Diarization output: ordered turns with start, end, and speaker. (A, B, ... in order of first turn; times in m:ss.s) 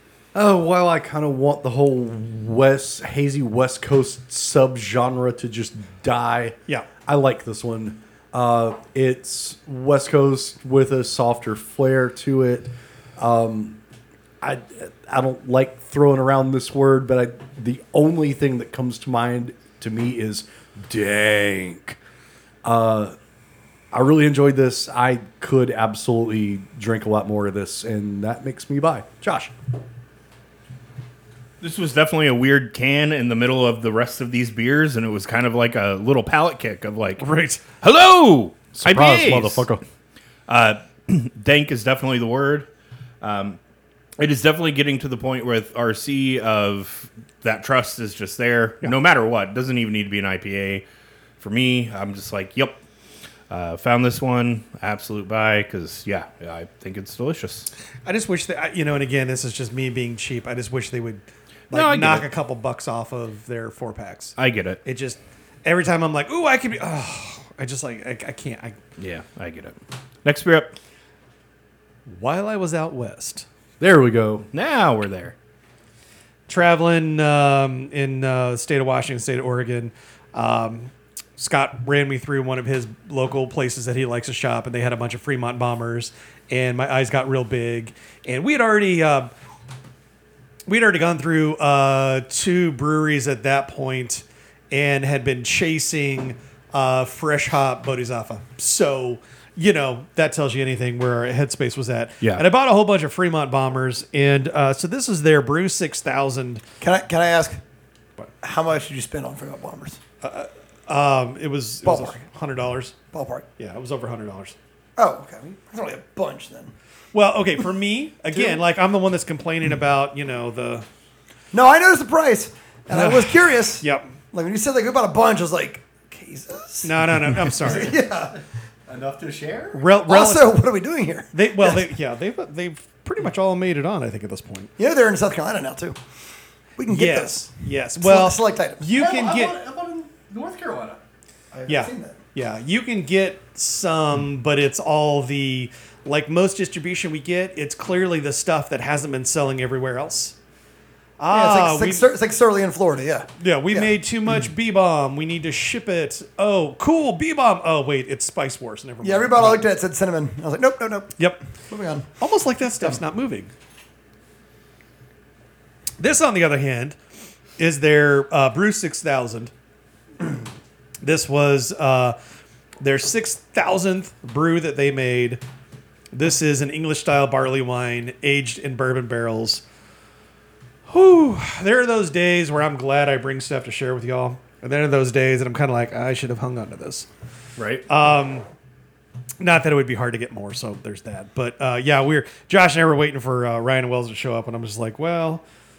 0:00.3-0:13.8 A
0:14.4-0:22.0 A
0:22.6-0:23.2 A
0:23.9-0:29.5 A
0:31.6-0:39.7 B
0:37.2-0:37.6 C
0:38.8-0:39.8 A
0:40.5-0:42.7 B
0:43.2-0:43.6 B
0:44.2-0:50.8 B
0:51.4-0:52.8 B
0:53.5-0:57.7 B
0:58.0-1:08.8 C
1:01.7-1:02.3 B
1:04.4-1:04.8 B
1:09.0-1:10.8 B
1:12.1-1:13.4 C
1:13.8-1:14.5 A
1:14.5-1:15.4 B
1:16.5-1:29.3 C
1:30.7-1:46.6 C
1:46.8-1:47.6 D
1:48.4-1:50.0 D
1:50.2-1:53.0 C
1:51.8-1:52.2 D
1:53.1-1:53.5 D
1:53.6-1:54.6 C
1:55.0-1:56.7 D
1:57.1-2:00.9 C
2:01.5-2:08.4 D
2:02.9-2:03.3 C
2:03.8-2:04.1 C
2:06.8-2:08.0 C
2:08.9-2:09.8 A
2:09.7-2:10.6 C
2:10.1-2:11.9 D
2:11.3-2:14.7 C
2:14.8-2:16.0 D
2:16.8-2:18.9 D
2:16.9-2:19.6 C
2:18.9-2:21.0 A
2:21.5-2:22.2 D
2:21.7-2:30.4 C
2:31.2-2:32.1 C
2:31.3-2:33.9 D
2:33.4-2:39.6 C
2:39.0-2:42.1 D
2:42.2-2:43.5 C
2:46.0-2:47.0 C
2:47.6-2:49.5 C
2:51.0-2:52.2 C
2:52.8-2:55.4 C
2:56.1-2:59.6 C
3:00.9-3:07.1 C
3:07.6-3:07.8 B
3:07.9-3:08.4 C
3:09.4-3:15.4 C